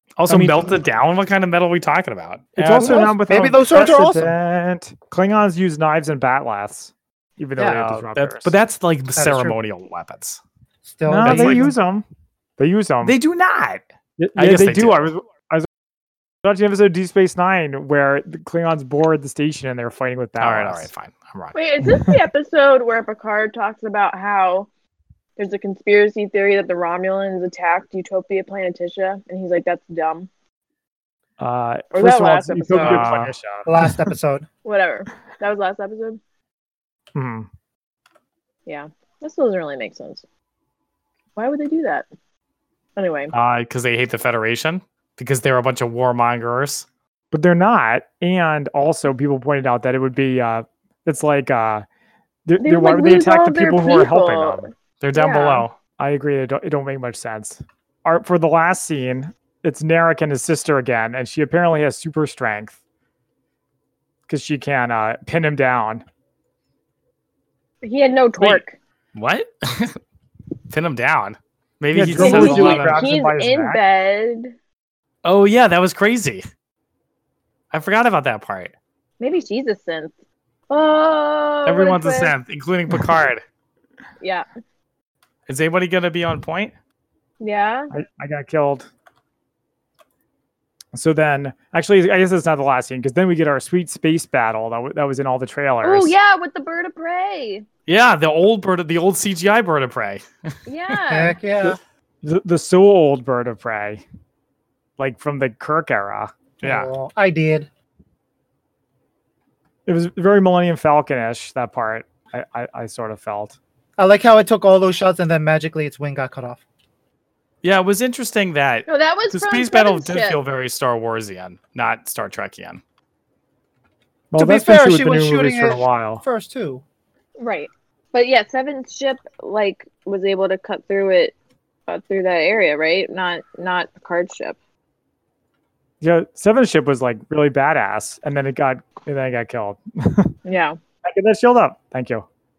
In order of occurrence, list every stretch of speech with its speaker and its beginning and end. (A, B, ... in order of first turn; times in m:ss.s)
0:00.2-0:03.1 A
0:00.3-0:00.8 B
0:02.6-0:08.5 B
0:02.8-0:04.3 C
0:07.6-0:10.4 A
0:09.2-0:09.6 C
0:10.8-0:11.7 C
0:11.1-0:12.0 B
0:11.2-0:11.7 A
0:12.6-0:13.2 B
0:13.0-0:13.8 A
0:14.2-0:15.7 B
0:14.4-0:15.1 A
0:16.4-0:20.9 B
0:20.4-0:21.6 A
0:21.5-0:24.7 D
0:21.9-0:22.2 B
0:25.4-0:30.3 D
0:31.4-0:33.9 B
0:31.9-0:33.1 D
0:32.8-0:33.4 A
0:33.7-0:34.5 C
0:34.6-0:36.2 D
0:37.2-0:37.5 B
0:38.7-0:40.2 D
0:41.4-0:42.1 D
0:43.0-0:43.3 D
0:43.3-0:46.9 A
0:47.3-0:51.9 B
0:52.5-0:54.7 B
0:52.6-0:55.7 D
0:55.0-0:55.8 A
0:56.0-1:02.8 B
1:04.3-1:06.0 B
1:07.8-1:08.8 D
1:09.2-1:10.0 A
1:10.7-1:13.0 A
1:11.9-1:13.8 B
1:12.2-1:14.5 D
1:15.2-1:16.4 A
1:17.7-1:18.7 A
1:19.2-1:20.1 D
1:20.7-1:22.3 D
1:21.7-1:23.4 A
1:24.2-1:24.5 D
1:25.5-1:26.7 A
1:27.4-1:27.9 D
1:27.9-1:28.9 B
1:30.9-1:36.1 B
1:35.8-1:37.7 D
1:37.9-1:40.3 A
1:40.7-1:41.4 D
1:41.1-1:41.8 C
1:41.6-1:44.0 B
1:45.0-1:46.3 B
1:46.6-1:47.7 C
1:46.6-1:46.9 A
1:49.9-1:53.6 B
1:54.0-1:56.6 C
1:57.6-2:02.8 A
1:58.9-2:00.4 D
2:04.3-2:06.2 B
2:04.4-2:06.8 C
2:07.4-2:11.3 D
2:11.9-2:14.6 D
2:16.0-2:20.3 B
2:20.4-2:20.8 D
2:21.0-2:22.3 B